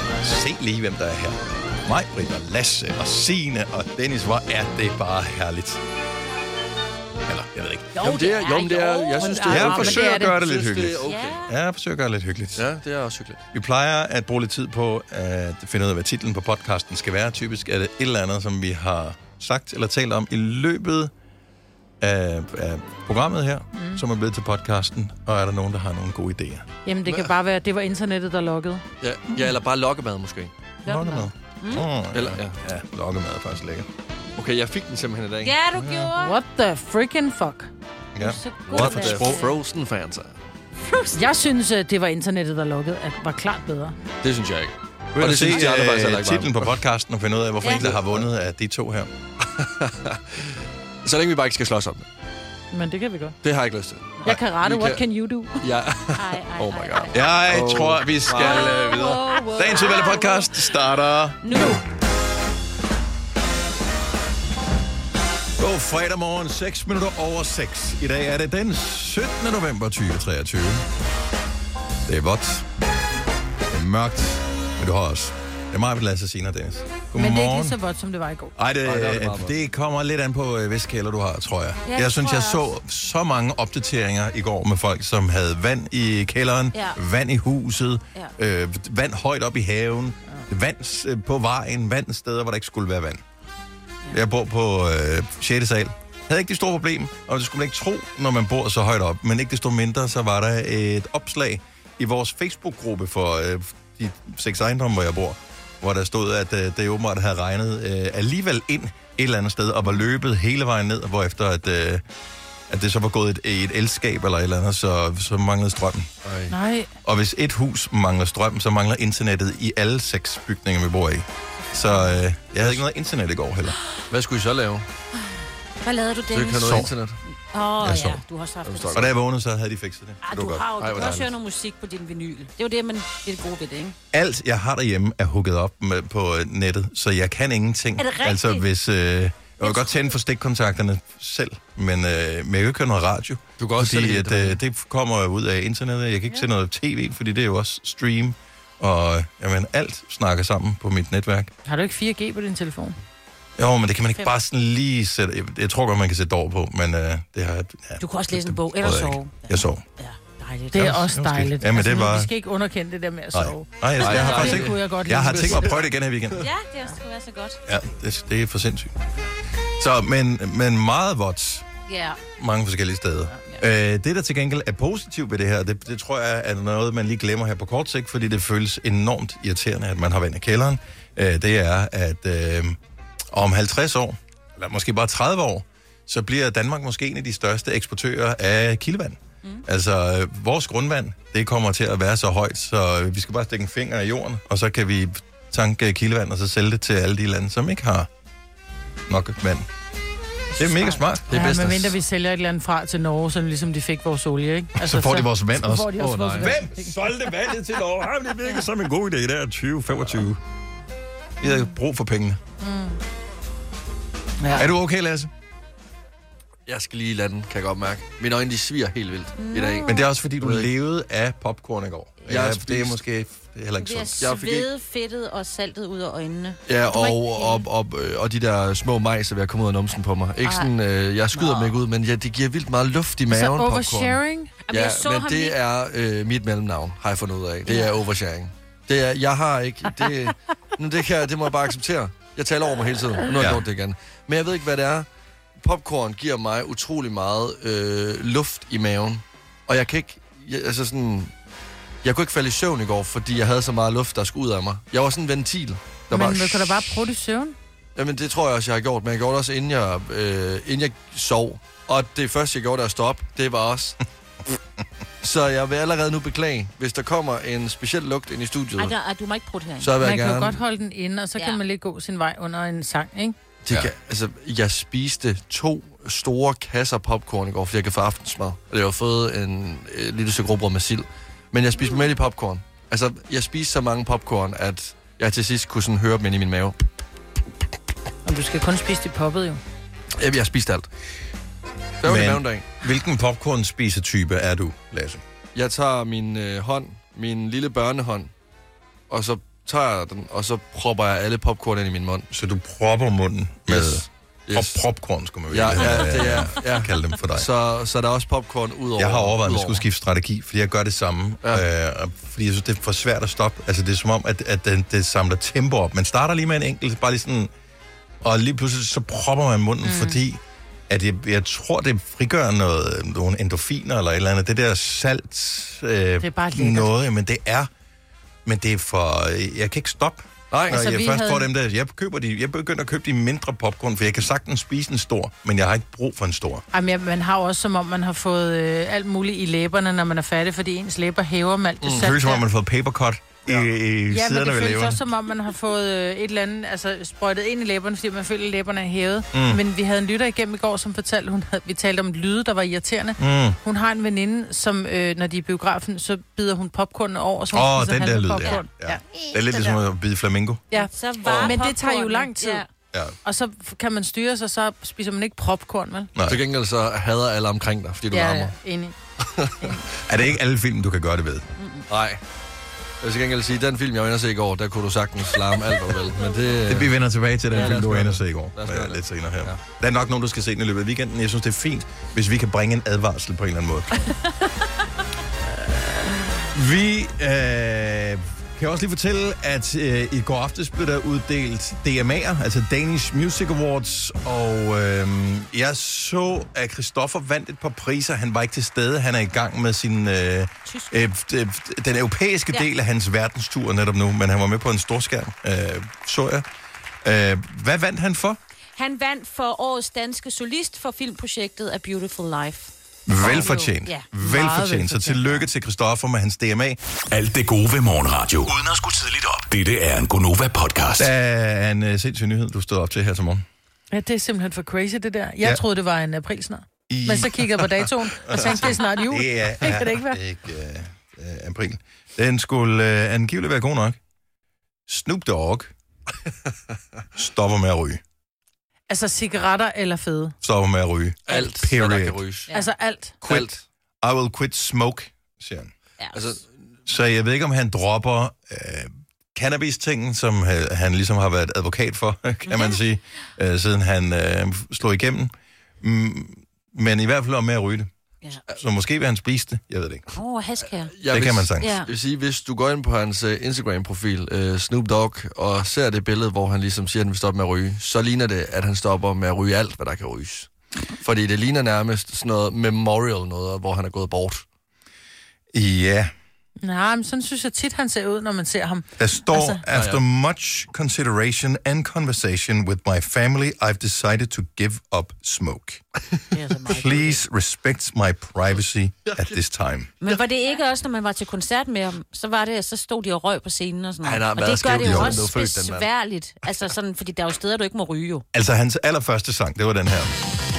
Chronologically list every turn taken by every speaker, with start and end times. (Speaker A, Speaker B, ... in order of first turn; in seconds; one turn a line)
Speaker A: 0.2-5.8
Speaker A: 7.2-8.0
Speaker B: 8.0-10.1
Speaker C: 8.0-11.4
Speaker D: 9.2-10.4
Speaker A: 9.5-12.7
Speaker B: 11.1-11.6
Speaker C: 12.6-13.4
Speaker A: 13.5-21.1
Speaker A: 22.0-26.7
Speaker D: 23.8-24.0
Speaker D: 26.9-28.8
Speaker C: 29.0-30.5
Speaker A: 30.8-33.9
Speaker B: 30.9-31.9
Speaker C: 32.1-32.6
Speaker C: 34.4-35.5
Speaker B: 35.4-36.4
Speaker A: 35.8-36.1
Speaker D: 36.2-37.7
Speaker A: 38.1-39.4
Speaker B: 38.2-39.6
Speaker C: 38.7-40.4
Speaker B: 40.9-41.2
Speaker D: 41.1-44.0
Speaker C: 44.2-46.8
Speaker A: 45.2-49.1
Speaker B: 47.6-47.9
Speaker C: 47.8-48.3
Speaker C: 49.5-50.5
Speaker C: 51.0-52.1
Speaker D: 52.7-53.4
Speaker C: 53.4-55.0
Speaker D: 54.2-55.6
Speaker C: 55.6-58.9
Speaker B: 56.1-57.2
Speaker A: 57.1-61.8
Speaker B: 58.3-60.8
Speaker B: 61.4-61.8
Speaker A: 65.6-70.8
Speaker A: 72.1-72.7
Speaker A: 73.7-77.8
Speaker D: 77.2-78.5
Speaker A: 78.6-93.2
Speaker C: 78.8-79.5
Speaker B: 81.8-82.7
Speaker A: 94.1-112.0
Speaker A: 112.7-116.1
Speaker C: 116.2-116.5
Speaker D: 116.5-116.9
Speaker A: 117.0-123.8
Speaker C: 124.1-124.9
Speaker B: 125.8-126.9
Speaker C: 126.3-127.2
Speaker A: 126.6-126.9
Speaker B: 127.5-129.1
Speaker A: 127.8-128.2
Speaker C: 128.7-129.1
Speaker A: 128.9-131.2
Speaker B: 130.2-134.0
Speaker C: 130.8-131.3
Speaker A: 134.1-151.5
Speaker B: 138.0-138.7
Speaker B: 139.6-140.1
Speaker C: 143.6-144.6
Speaker D: 151.7-153.0
Speaker A: 153.6-159.8
Speaker B: 158.0-161.0
Speaker D: 160.7-165.7
Speaker A: 160.8-162.3
Speaker A: 163.3-166.5
Speaker B: 164.0-164.5
Speaker C: 164.0-166.4
Speaker B: 166.4-167.6
Speaker A: 167.7-168.9
Speaker A: 169.8-171.7
Speaker B: 171.9-172.2
Speaker A: 172.4-182.8
Speaker A: 183.3-198.1
Speaker A: 199.1-199.7
Speaker A: 200.6-201.3
Speaker C: 201.3-202.0
Speaker D: 201.3-207.1
Speaker A: 204.8-210.4
Speaker C: 206.0-206.6
Speaker A: 211.4-212.4
Speaker D: 212.6-213.0
Speaker D: 214.4-214.7
Speaker A: 214.6-215.3
Speaker C: 216.7-220.7
Speaker B: 219.4-220.0
Speaker A: 219.8-224.3
Speaker C: 222.3-223.0
Speaker B: 223.8-227.7
Speaker C: 224.2-224.7
Speaker C: 226.7-234.2
Speaker B: 230.4-230.7
Speaker B: 231.3-231.8
Speaker D: 233.3-234.5
Speaker B: 234.7-235.6
Speaker C: 234.7-245.1
Speaker B: 237.7-238.0
Speaker A: 243.4-243.6
Speaker C: 245.6-251.3
Speaker C: 252.0-257.0
Speaker D: 256.1-257.6
Speaker C: 258.0-264.0
Speaker C: 265.2-269.0
Speaker B: 268.8-270.0
Speaker C: 269.8-270.6
Speaker D: 270.0-273.4
Speaker C: 273.6-286.8
Speaker D: 288.3-289.6
Speaker C: 290.2-290.9
Speaker C: 292.0-292.7
Speaker A: 292.0-295.2
Speaker C: 295.6-298.3
Speaker C: 299.1-302.3
Speaker A: 302.3-307.5
Speaker C: 303.7-304.8
Speaker C: 305.5-309.8
Speaker A: 309.0-317.5
Speaker A: 318.2-327.7
Speaker D: 319.8-320.2
Speaker D: 326.2-326.9
Speaker A: 328.4-336.6
Speaker C: 330.5-330.9
Speaker D: 330.7-331.5
Speaker D: 336.7-342.4
Speaker C: 341.8-342.1
Speaker A: 341.9-345.0
Speaker D: 344.1-359.0
Speaker A: 349.3-349.6
Speaker A: 353.2-353.6
Speaker A: 357.5-360.6
Speaker B: 358.4-359.8
Speaker D: 360.7-362.6
Speaker B: 360.7-362.7
Speaker C: 361.2-361.6
Speaker D: 363.2-366.1
Speaker A: 366.1-366.4
Speaker C: 366.3-368.5
Speaker D: 368.1-368.9
Speaker C: 369.2-369.7
Speaker A: 370.1-371.5
Speaker B: 371.6-371.9
Speaker C: 371.9-372.2
Speaker C: 373.0-376.9
Speaker B: 376.2-376.6
Speaker A: 376.7-384.1
Speaker C: 377.5-379.6
Speaker A: 386.5-406.5
Speaker B: 400.7-400.9
Speaker A: 407.0-408.4
Speaker B: 408.8-414.1
Speaker A: 413.1-416.8
Speaker D: 414.2-415.4
Speaker E: 417.1-421.1
Speaker A: 421.0-423.4
Speaker D: 423.9-430.2
Speaker A: 426.9-434.0
Speaker A: 434.9-435.7
Speaker A: 437.2-438.0
Speaker D: 438.9-440.4
Speaker A: 440.4-442.2
Speaker C: 441.3-442.5
Speaker D: 442.5-443.2
Speaker A: 443.2-445.7
Speaker C: 443.2-443.6
Speaker B: 446.0-446.3
Speaker C: 446.1-446.5
Speaker A: 446.9-457.9
Speaker B: 452.5-452.8
Speaker A: 458.5-460.1
Speaker B: 460.1-460.9
Speaker C: 460.9-470.5
Speaker A: 461.1-461.8
Speaker B: 461.6-461.9
Speaker C: 471.0-474.4
Speaker A: 475.5-476.1
Speaker D: 476.6-479.6
Speaker A: 479.0-485.8
Speaker C: 479.7-480.0
Speaker B: 486.3-487.2
Speaker A: 486.7-489.9
Speaker C: 489.1-489.4
Speaker B: 490.0-498.2
Speaker C: 494.0-495.9
Speaker A: 494.8-495.1
Speaker A: 498.3-500.2